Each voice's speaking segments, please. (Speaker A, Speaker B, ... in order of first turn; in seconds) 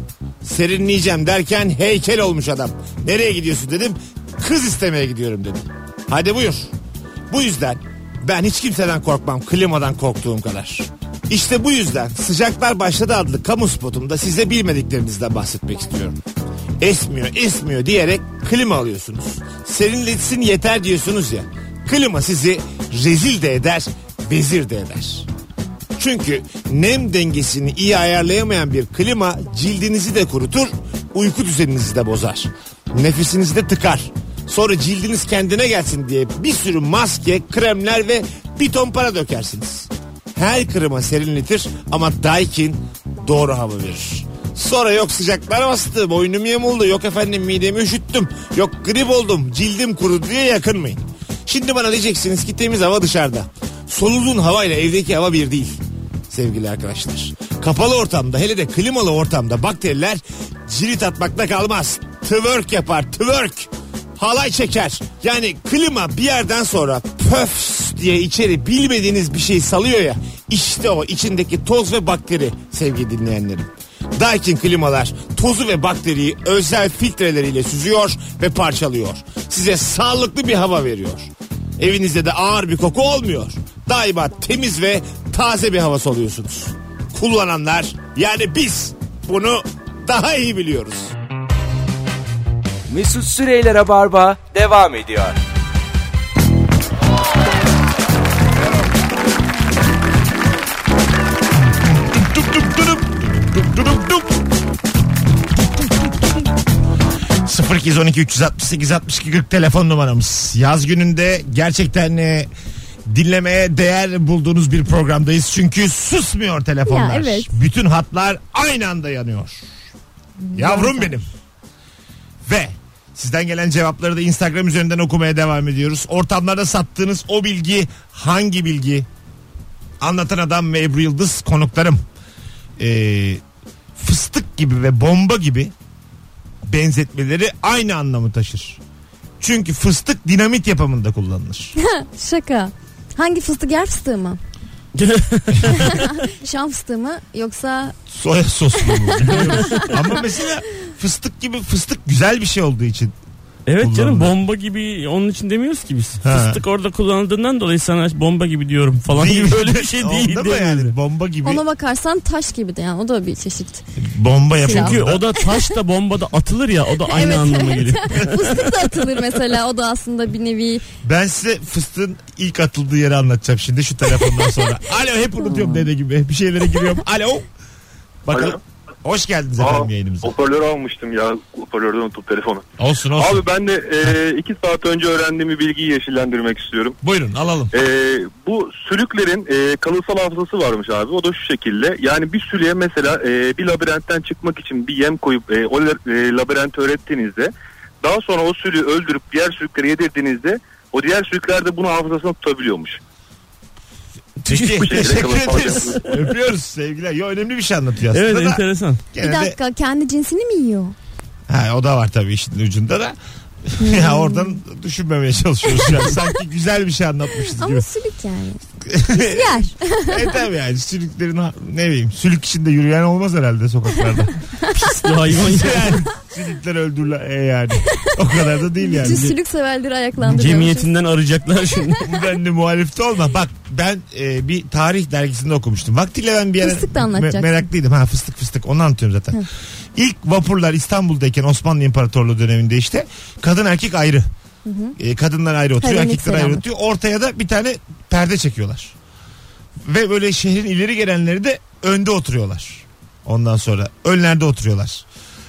Speaker A: 0.4-6.7, 7.3-16.2, 16.8-25.3, 25.9-55.8, 56.3-91.1, 102.1-104.4, 107.4-112.5, 113.1-119.7, 120.5-121.2, 122.4-129.1, 130.0-132.0, 132.8-133.4, 133.9-135.7, 136.6-138.8, 139.4-141.7, 148.1-153.1, 153.8-154.3, 156.2-156.6, 159.1-161.6, 164.0-165.2, 171.0-177.4, 178.2-180.3, 182.8-183.5, 187.0-187.7, 204.4-209.6, 211.5-217.8, 218.8-224.3, 225.3-229.2, 232.0-244.2, 245.0-248.9, 249.8-255.0
Speaker B: 92.9-95.4
Speaker C: 116.8-117.5, 120.4-121.1, 141.8-144.4, 145.7-147.9, 161.4-163.8, 164.6-165.5, 167.0-170.8, 175.4-175.8, 209.2-210.9, 213.8-214.6, 217.4-218.6, 219.1-220.4, 228.8-230.9, 236.6-237.6, 244.7-244.9, 245.8-246.6
Speaker D: 144.9-146.0, 149.3-149.9, 153.7-160.9, 164.7-168.8, 208.1-209.0, 224.7-226.0, 229.0-229.3, 230.2-232.1
Speaker E: 178.3-178.6, 179.6-187.0, 187.7-197.5, 198.0-203.0, 204.4-206.1